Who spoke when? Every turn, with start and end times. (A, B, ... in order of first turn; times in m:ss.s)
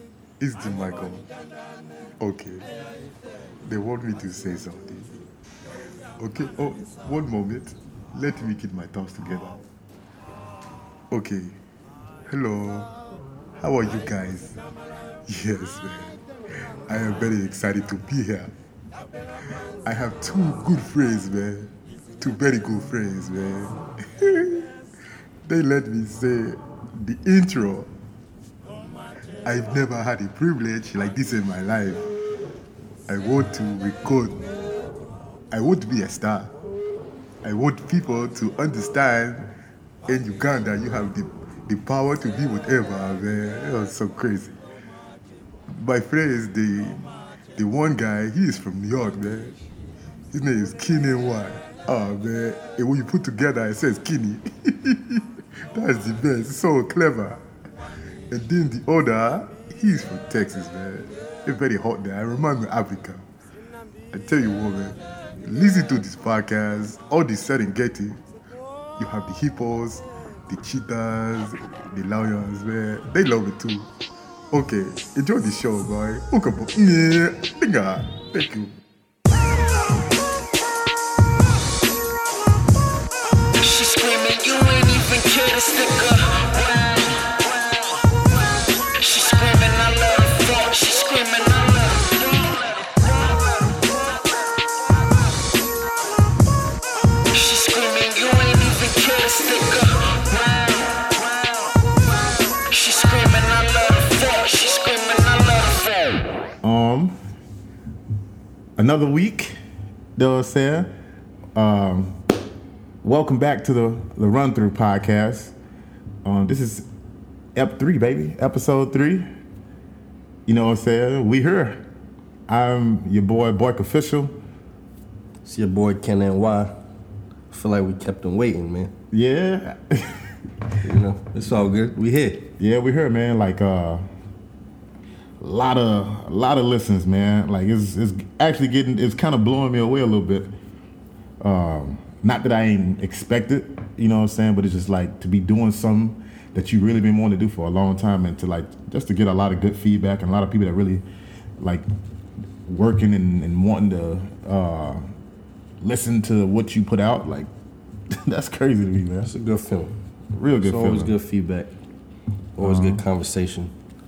0:00.4-0:01.3 A
0:02.2-0:02.7 A
0:03.6-0:05.2 A
0:06.2-0:09.6 A
0:11.1-0:11.6 A
0:12.3-0:12.9 A
0:13.6-0:14.6 A
0:15.3-0:16.2 A
0:16.9-0:18.5 A
0:19.8-0:24.7 A
0:25.5-0:27.9 A
0:29.4-0:32.0 A
0:33.1-0:34.4 A
0:35.5-0:36.5 A
0:37.4-0:39.5 A
0:40.1-0:44.6 A
0:45.7-0:49.6 A
0:50.3-0:57.4 A
0:58.3-1:03.2 A
1:04.1-1:08.2 A
1:09.0-1:13.9 A
1:14.5-1:18.8 A
1:23.6-1:34.7 B
1:37.3-1:46.2 B
1:46.6-1:47.2 C
1:48.8-1:49.6 C
1:50.2-1:50.9 C
1:51.6-1:52.2 C
1:53.0-1:55.5 C
1:56.2-1:56.9 C
1:57.6-1:59.3 C
2:00.5-2:01.8 C
2:02.5-2:04.3 C
2:05.4-2:06.8 D
2:07.5-2:08.9 D
2:09.1-2:10.3 C
2:10.8-2:12.5 D
2:12.6-2:14.0 C
2:15.4-2:20.5 C
2:21.4-2:31.0 C
2:31.6-2:31.9 C
2:32.6-2:35.0 C
2:35.8-2:37.5 C
2:38.1-2:39.3 C
2:39.2-2:39.9 D
2:40.3-2:41.1 C
2:40.6-2:41.7 D
2:42.6-2:43.7 D
2:42.6-2:43.0 C